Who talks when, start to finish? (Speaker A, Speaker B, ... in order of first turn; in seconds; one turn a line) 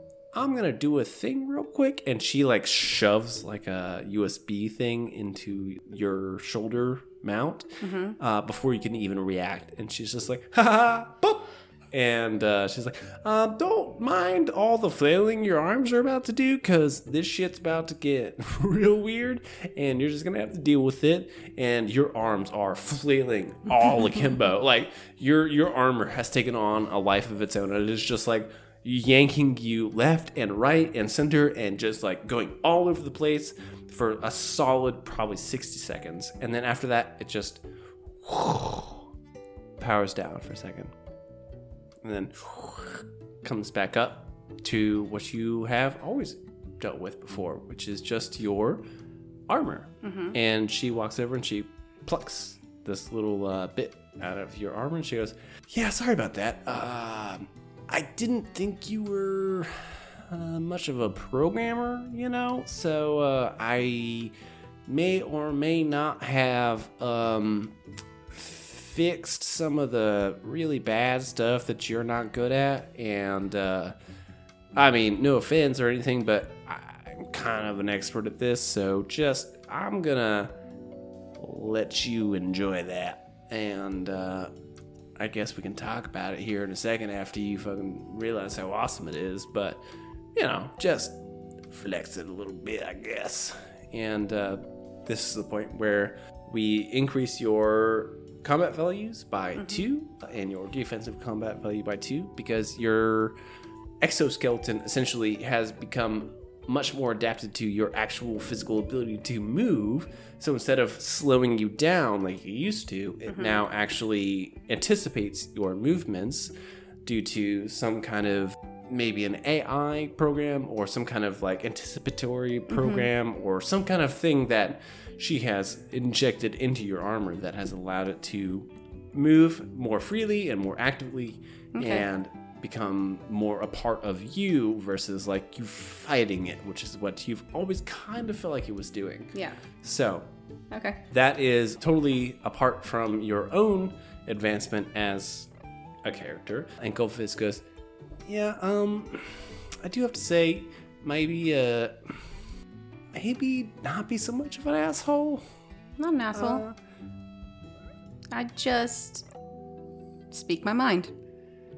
Speaker A: 0.3-37.6
Speaker B: 7.8-8.2
Speaker A: 38.2-39.0
Speaker A: 39.8-40.9
Speaker A: 42.0-48.8
Speaker A: 49.5-64.3
Speaker B: 50.0-50.4
Speaker A: 64.8-67.8
Speaker A: 68.3-73.9
Speaker A: 74.7-80.5
Speaker A: 81.4-84.5
Speaker A: 85.2-89.8
Speaker A: 90.3-91.2
Speaker A: 91.7-103.4
Speaker B: 99.5-99.8
Speaker A: 104.0-116.5
Speaker B: 113.3-113.6
Speaker A: 117.0-140.3
Speaker B: 122.7-123.1
Speaker B: 131.7-132.1
Speaker B: 140.7-141.0
Speaker A: 141.1-145.5
Speaker A: 146.0-147.6
Speaker A: 148.2-152.3
Speaker A: 153.1-155.4
Speaker B: 156.0-156.6
Speaker A: 156.3-156.8
Speaker B: 158.3-159.2
Speaker B: 160.3-161.1